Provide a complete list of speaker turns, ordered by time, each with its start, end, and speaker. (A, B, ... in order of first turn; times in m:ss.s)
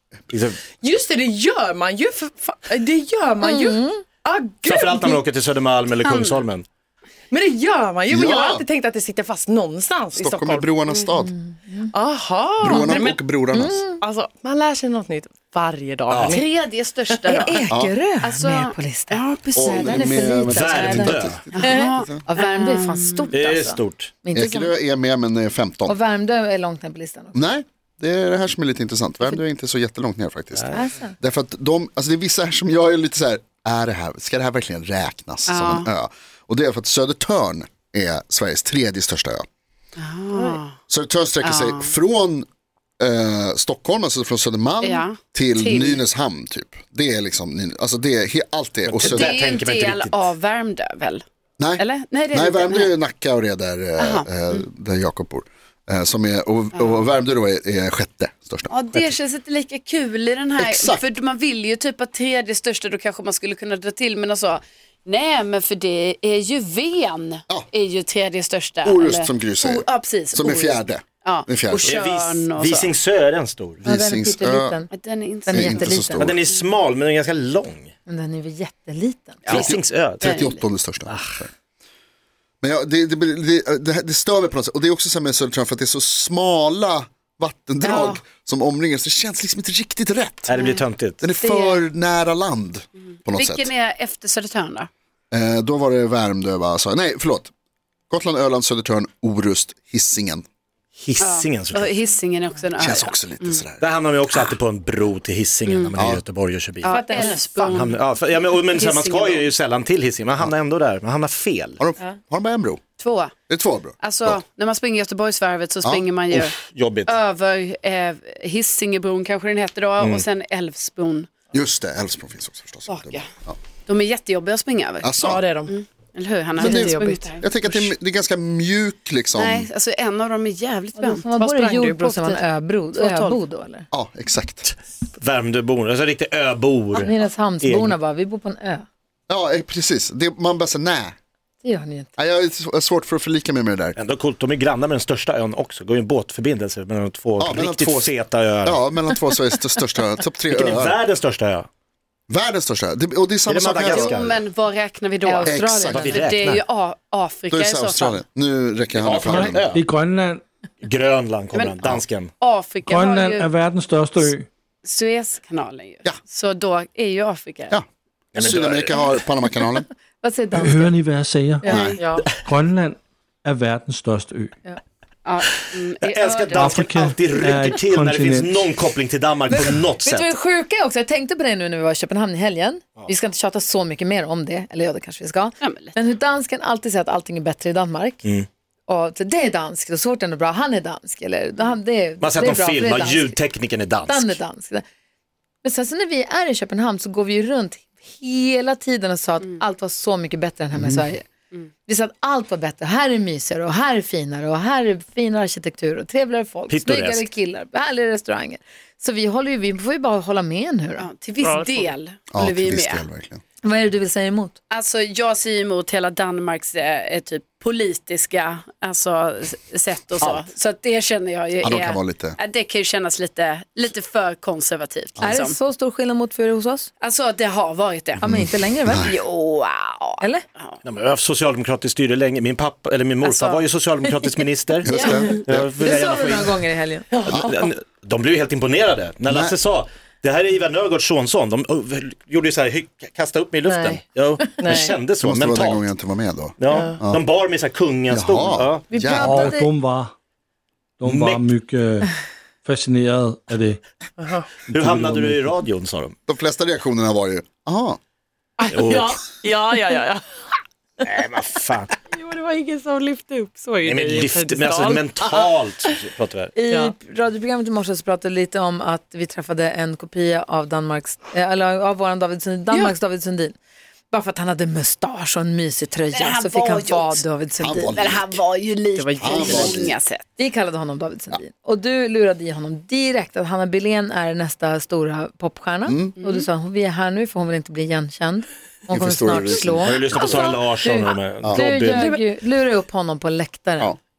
0:00.3-0:00.6 A
0:00.8-0:05.2 B
0:03.4-0:04.0 C
0:04.6-0:06.6 A
0:06.0-0:06.4 D
0:07.3-0:10.9 B
0:08.1-0:08.6 E
0:10.1-0:11.3 E
0:11.2-0:11.9 C
0:11.9-0:13.2 B
0:12.6-0:13.8 E
0:12.7-0:13.0 C
0:13.5-0:14.0 C
0:13.9-0:16.4 B
0:16.1-0:16.4 A
0:16.2-0:17.6 D
0:17.1-0:17.4 B
0:17.3-0:24.7 C
0:17.7-0:17.9 E
0:18.2-0:23.3 D
0:19.6-0:22.2 E
0:20.5-0:21.4 A
0:23.3-0:24.1 A
0:24.3-0:26.0 E
0:25.8-0:27.4 C
0:27.3-0:39.4 E
0:30.7-0:31.2 C
0:35.5-0:35.9 D
0:40.0-0:40.7 D
0:40.9-0:42.4 E
0:41.4-0:41.9 D
0:43.0-0:49.3 E
0:44.8-0:46.0 D
0:48.8-0:50.3 A
0:49.1-0:51.2 D
0:51.6-0:59.1 E
0:51.8-0:52.9 D
0:54.0-0:54.6 D
0:58.7-1:12.9 D
1:00.6-1:01.0 E
1:08.8-1:11.9 E
1:11.8-1:13.8 A
1:13.8-1:14.8 E
1:13.8-1:14.9 C
1:14.9-1:16.0 D
1:15.4-1:16.3 C
1:15.5-1:16.3 E
1:16.1-1:17.9 A
1:18.1-1:19.4 C
1:19.4-1:20.4 A
1:19.5-1:20.6 D
1:19.5-1:21.5 E
1:21.1-1:21.4 A
1:22.6-1:30.5 E
1:27.8-1:28.2 D
1:30.5-1:31.3 A
1:30.5-1:30.8 D
1:31.2-1:33.7 E
1:31.4-1:31.8 D
1:33.3-1:34.9 D
1:35.3-1:37.5 E
1:38.1-1:40.4 E
1:41.0-1:42.0 A
1:41.2-1:43.6 D
1:42.8-1:43.8 E
1:43.8-1:51.8 A
1:45.7-1:46.0 D
1:46.0-1:46.2 E
1:46.8-1:48.0 D
1:46.8-1:47.8 C
1:48.7-1:49.5 D
1:51.8-1:52.8 E
1:53.0-1:53.3 D
1:53.5-1:54.4 E
1:54.0-2:01.3 D
1:56.3-1:57.2 A
2:00.0-2:00.2 A
2:01.5-2:03.6 E
2:02.9-2:03.3 D
2:03.8-2:07.4 D
2:05.0-2:05.4 E
2:05.2-2:05.7 B
2:06.6-2:09.7 E
2:06.6-2:07.9 B
2:09.3-2:11.7 D
2:11.0-2:13.8 C
2:11.4-2:12.3 B
2:12.9-2:13.4 D
2:13.9-2:14.7 E
2:15.2-2:18.0 A
2:16.9-2:18.8 C
2:19.3-2:21.1 E
2:21.6-2:22.1 C
2:22.2-2:24.0 E
2:24.0-2:28.9 A
2:27.4-2:31.0 E
2:30.5-2:31.7 A
2:32.3-2:34.4 E
2:33.4-2:34.4 A
2:33.8-2:38.2 D
2:35.2-2:36.3 C
2:35.5-2:36.2 E
2:35.9-2:36.6 A
2:37.5-2:39.7 E
2:38.9-2:39.8 A
2:39.2-2:40.4 F
2:40.8-2:42.3 A
2:41.5-2:43.5 D
2:42.8-2:44.5 F
2:44.8-2:47.8 D
2:48.3-2:49.2 A
2:48.4-2:49.9 E
2:50.2-2:50.9 C
2:50.5-2:54.6 F
2:51.6-2:52.0 E
2:51.7-2:52.0 D
2:52.0-2:52.3 B
2:55.2-2:56.9 D
2:56.0-3:00.3 A
2:56.5-2:58.6 F
2:59.6-3:08.2 C
3:05.6-3:06.0 D
3:08.9-3:13.4 C
3:12.2-3:14.4 A
3:14.0-3:14.8 C
3:15.6-3:21.3 C
3:21.8-3:31.0 C
3:26.7-3:27.3 A
3:31.0-3:33.0 D
3:31.4-3:31.9 B
3:32.3-3:33.4 E
3:33.6-3:34.6 C
3:34.7-3:45.6 D
3:41.6-3:42.4 E
3:45.2-3:46.9 C
3:47.0-3:48.2 D
3:48.2-3:49.1 C
3:48.2-3:49.1 E
3:49.0-3:50.8 D
3:50.8-3:54.9 A
3:53.2-3:53.6 D
3:54.8-3:55.6 E
3:54.9-3:55.4 D
3:55.4-3:57.1 C
3:55.4-3:56.6 A
3:57.1-3:57.4 B
3:57.2-4:05.9 A
3:57.3-3:57.6 E
3:59.3-3:59.5 E
4:03.7-4:04.0 B
4:04.6-4:05.0 B
4:05.2-4:07.2 E
4:06.6-4:08.8 A
4:06.7-4:07.0 B
4:08.1-4:09.5 E
4:09.0-4:09.7 C
4:09.1-4:10.1 F
4:11.0-4:13.8 F
4:11.0-4:11.5 A
4:14.2-4:14.6 B
4:14.7-4:16.1 A
4:14.7-4:15.4 F
4:16.3-4:18.0 E
4:18.6-4:20.2 B
4:18.7-4:19.2 A
4:21.0-4:21.9 A
4:22.1-4:25.5 B
4:23.8-4:26.5 A
4:26.6-4:33.5 C
4:26.7-4:26.9 B
4:34.1-4:38.0 C
4:36.1-4:37.2 D
4:37.6-4:38.4 E
4:38.0-4:40.2 D
4:38.9-4:39.8 B
4:39.2-4:39.9 E
4:40.4-4:53.9 C
4:45.9-4:46.1 E
4:46.2-4:46.5 D
4:48.9-4:50.5 E
4:49.8-4:52.1 A
4:51.9-4:52.2 B